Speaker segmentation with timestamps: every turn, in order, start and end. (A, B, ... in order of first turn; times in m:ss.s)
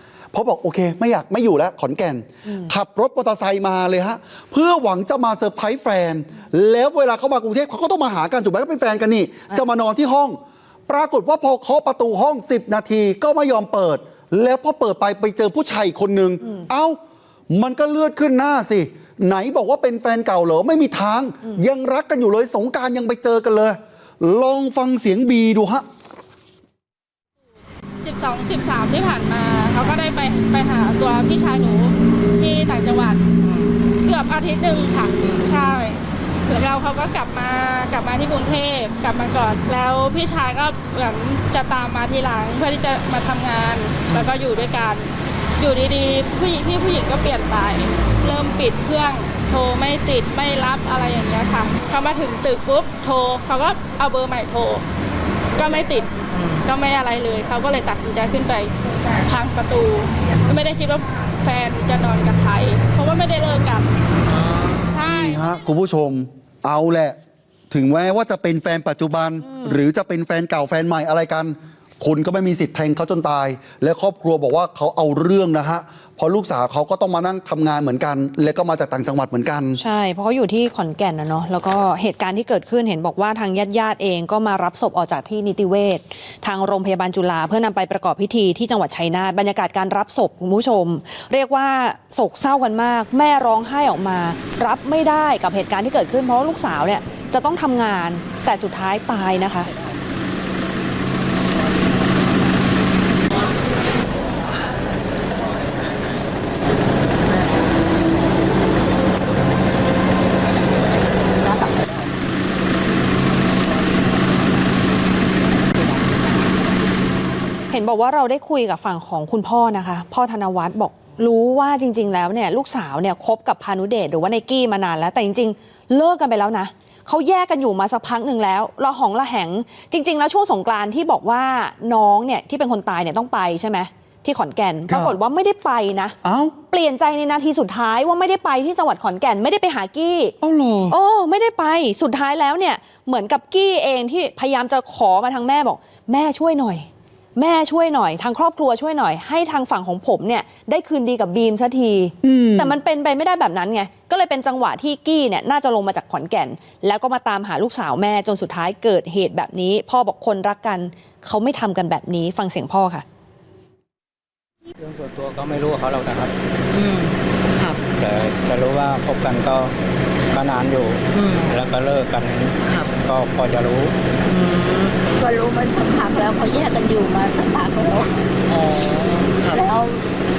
0:00.3-0:17.0 A
0:17.5-0:25.8 A
0:28.0-0:33.2 B
0:33.4-0:33.8 C
0:34.0-0:54.8 B
0:35.2-0:35.8 C
0:44.1-0:44.6 C
0:48.3-0:48.7 C
0:55.6-1:03.9 B
0:56.3-0:56.7 C
1:04.3-1:05.0 C
1:04.9-1:05.5 B
1:05.0-1:07.2 A
1:07.7-1:19.8 A
1:19.8-1:39.7 D
1:51.4-1:51.9 D
1:57.7-2:16.2 D
2:14.9-2:15.2 A
2:16.2-2:16.6 A
2:16.7-2:20.4 D
2:20.4-2:21.0 A
2:20.9-2:43.0 D
2:32.2-2:32.8 A
2:44.8-2:46.3 E
2:46.7-2:47.9 C
2:48.0-2:49.7 E
2:48.7-2:49.5 C
2:50.3-2:54.0 E
2:51.1-2:51.6 C
2:52.6-2:55.0 C
2:55.1-2:58.2 F
2:58.5-2:59.7 C
2:59.5-3:00.0 F